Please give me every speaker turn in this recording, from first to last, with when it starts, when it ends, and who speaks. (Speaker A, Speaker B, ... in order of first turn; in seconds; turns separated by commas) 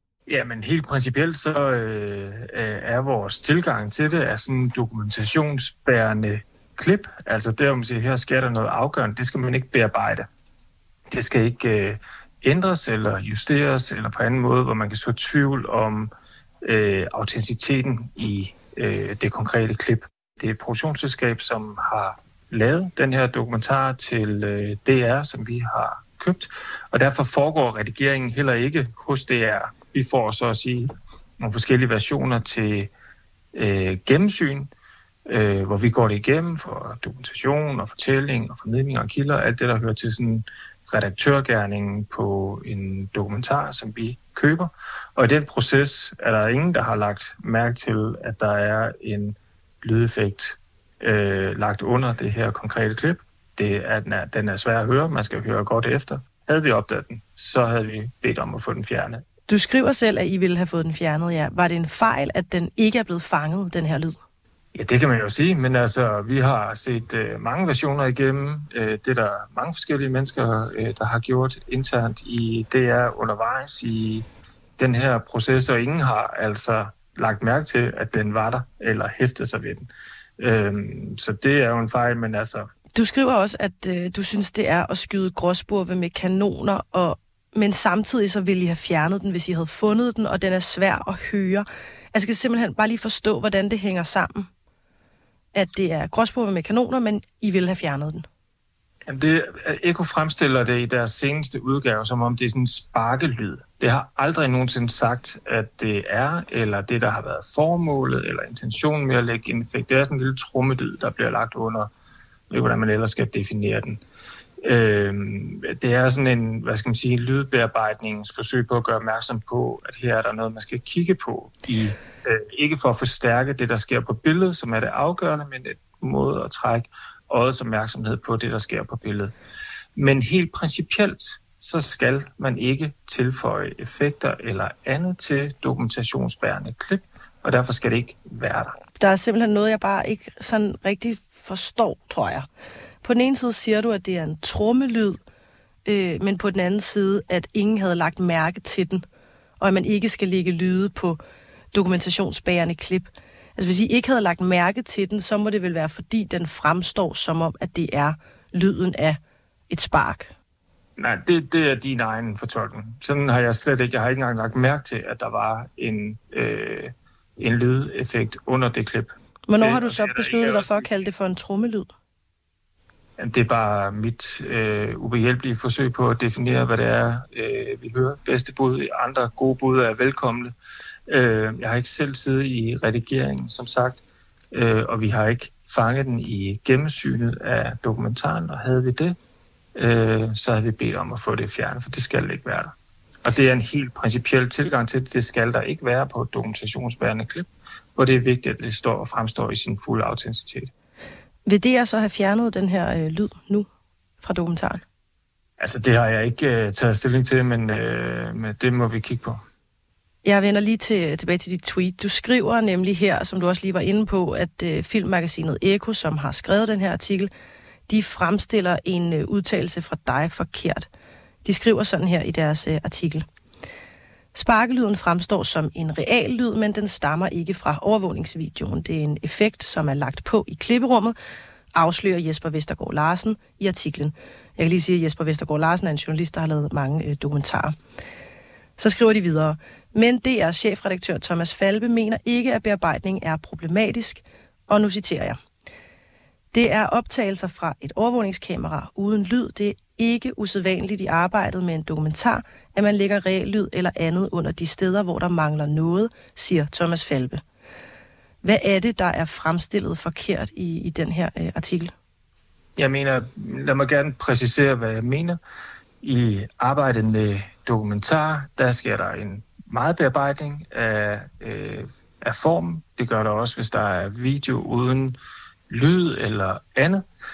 Speaker A: 0.3-10.2, Speaker A: 11.1-16.1, Speaker A: 16.6-32.9, Speaker A: 33.5-34.7, Speaker A: 35.2-59.2, Speaker B: 59.5-64.2, Speaker A: 64.7-74.2, Speaker A: 74.8-79.9, Speaker A: 80.4-82.7, Speaker B: 82.9-94.5, Speaker B: 95.5-98.2, Speaker A: 99.1-111.9, Speaker A: 112.5-114.0, Speaker A: 114.6-129.3, Speaker A: 129.9-138.7, Speaker B: 139.0-142.4, Speaker B: 143.0-145.2, Speaker B: 145.8-149.0, Speaker B: 149.6-151.2, Speaker B: 151.7-159.2, Speaker B: 159.7-160.3, Speaker A: 161.0-170.9, Speaker B: 169.5-171.9, Speaker A: 173.2-180.5, Speaker A: 181.1-189.2, Speaker A: 189.8-192.7, Speaker A: 193.2-200.7, Speaker B: 201.4-203.7, Speaker B: 204.2-204.8, Speaker A: 205.6-209.4, Speaker B: 210.2-217.3, Speaker B: 217.9-220.9, Speaker B: 221.4-223.2, Speaker B: 224.3-231.1, Speaker B: 231.7-237.7, Speaker B: 238.8-245.4, Speaker B: 246.5-257.4, Speaker B: 258.4-261.9, Speaker A: 262.8-265.4, Speaker A: 266.0-275.2, Speaker A: 275.7-277.0